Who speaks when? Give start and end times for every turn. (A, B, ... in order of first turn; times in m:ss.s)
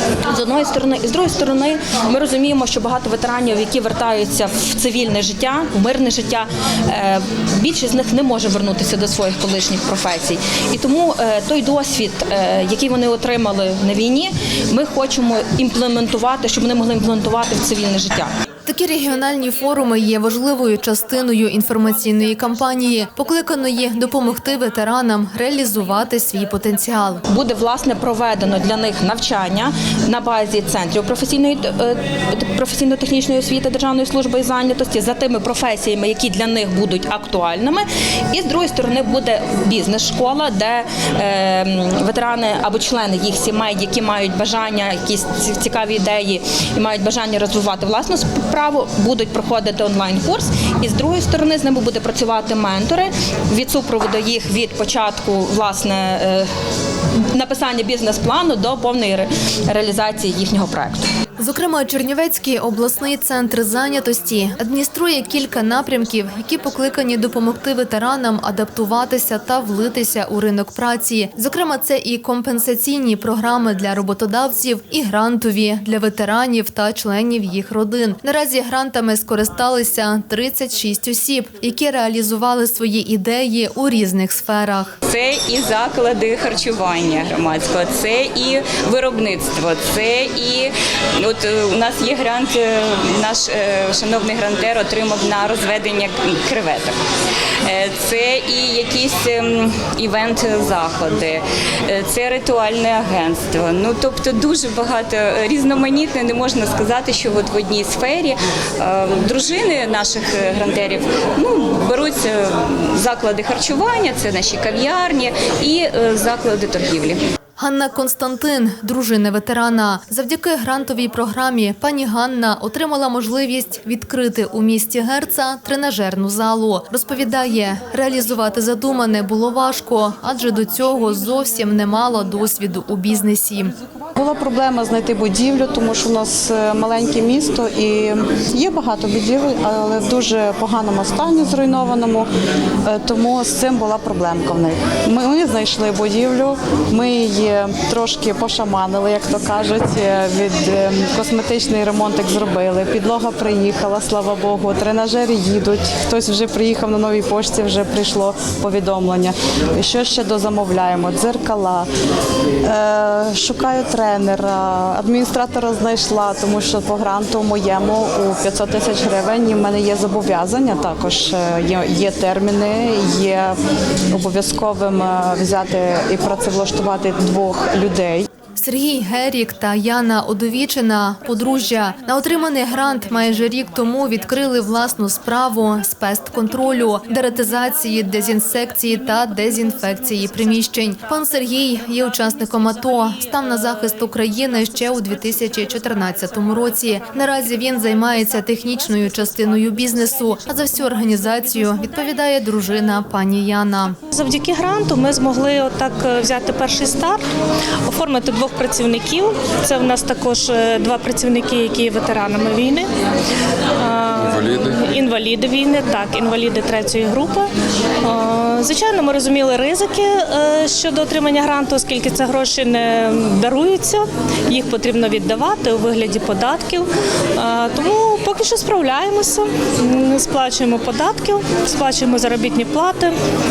0:00.2-0:18.3 A
0:18.7-0:27.2 B
0:27.3-0:56.5 A
0:57.3-1:01.1 A
1:01.4-1:25.0 B
1:25.0-1:37.0 C
1:37.7-1:57.2 C
1:57.6-2:13.7 B
2:14.2-2:22.3 D
2:22.8-2:41.9 D
2:42.6-2:53.6 D
2:54.1-2:58.3 D
2:58.6-3:24.0 B
3:24.1-3:27.2 E
3:27.9-3:32.9 E
3:33.8-3:37.5 E
3:38.0-3:53.2 E